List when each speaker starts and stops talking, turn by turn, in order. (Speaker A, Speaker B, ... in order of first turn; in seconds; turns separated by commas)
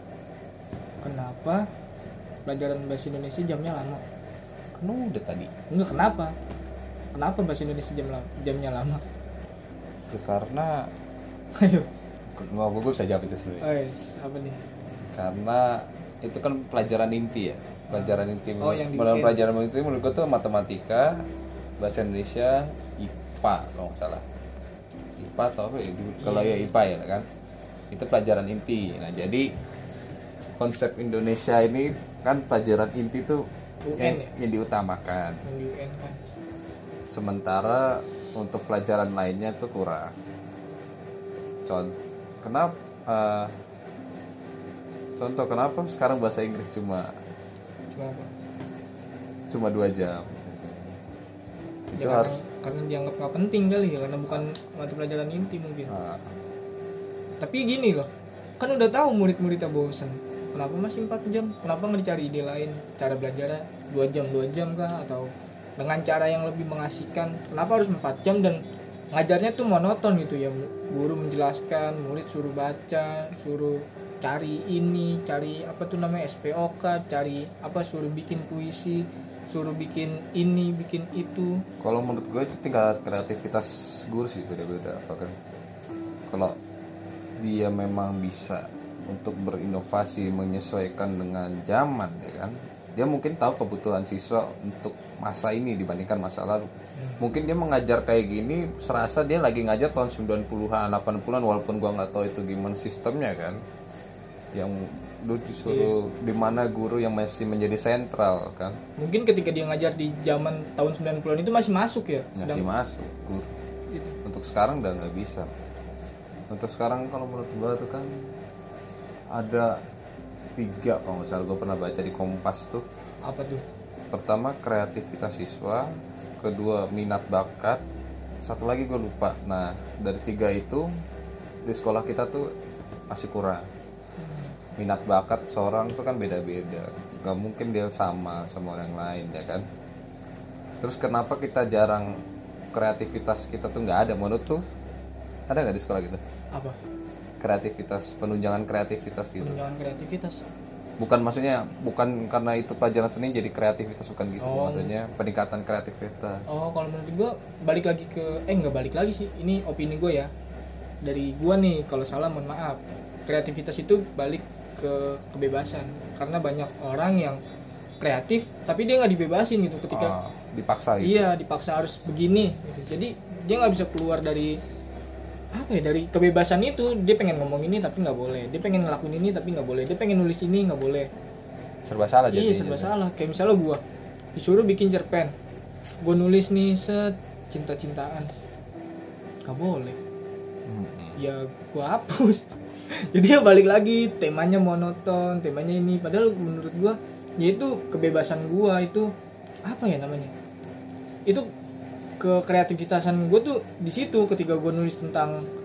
Speaker A: 1.0-1.7, Speaker A: 2.5-4.0, Speaker B: 4.7-5.5, Speaker A: 5.7-6.3, Speaker A: 7.1-9.0, Speaker B: 10.1-10.9, Speaker A: 11.6-11.9, Speaker B: 12.3-13.7, Speaker A: 13.6-14.7, Speaker B: 15.1-21.2, Speaker A: 17.9-19.4, Speaker B: 21.8-24.2, Speaker B: 25.2-27.3, Speaker A: 26.2-26.7, Speaker B: 27.9-29.5, Speaker B: 30.6-35.4, Speaker A: 33.9-34.3, Speaker A: 35.5-36.2, Speaker B: 37.1-40.1, Speaker B: 41.7-43.5, Speaker B: 45.2-47.1, Speaker A: 47.9-48.3, Speaker B: 49.5-51.0, Speaker B: 51.9-52.4, Speaker A: 52.0-55.9, Speaker B: 55.9-56.4, Speaker A: 57.4-81.6, Speaker B: 81.8-85.4, Speaker B: 86.3-86.6, Speaker B: 87.4-103.6, Speaker A: 97.0-97.2, Speaker B: 104.5-108.8, Speaker A: 105.7-105.9, Speaker A: 109.0-112.7, Speaker B: 112.3-113.5, Speaker A: 113.9-114.2, Speaker B: 114.2-115.5, Speaker B: 116.5-118.4, Speaker B: 119.3-119.8, Speaker B: 120.6-122.9, Speaker A: 123.2-123.6, Speaker B: 124.1-127.8, Speaker B: 128.4-130.9, Speaker B: 131.7-132.5, Speaker B: 133.1-133.7, Speaker A: 134.2-134.6, Speaker B: 134.8-139.7, Speaker B: 140.8-142.1, Speaker B: 142.7-144.6, Speaker B: 145.5-146.2, Speaker B: 147.4-149.6, Speaker A: 149.4-150.4, Speaker B: 151.0-156.4, Speaker A: 154.4-154.9, Speaker A: 156.5-160.3, Speaker A: 161.0-167.4, Speaker A: 168.0-170.2, Speaker B: 169.9-171.2, Speaker A: 171.0-174.6, Speaker A: 175.5-181.1, Speaker B: 181.9-182.9, Speaker A: 182.3-183.8, Speaker A: 184.4-185.3, Speaker A: 186.0-188.3, Speaker A: 189.4-190.0, Speaker B: 190.7-191.2, Speaker A: 191.2-199.1, Speaker A: 199.7-200.3, Speaker A: 202.2-205.5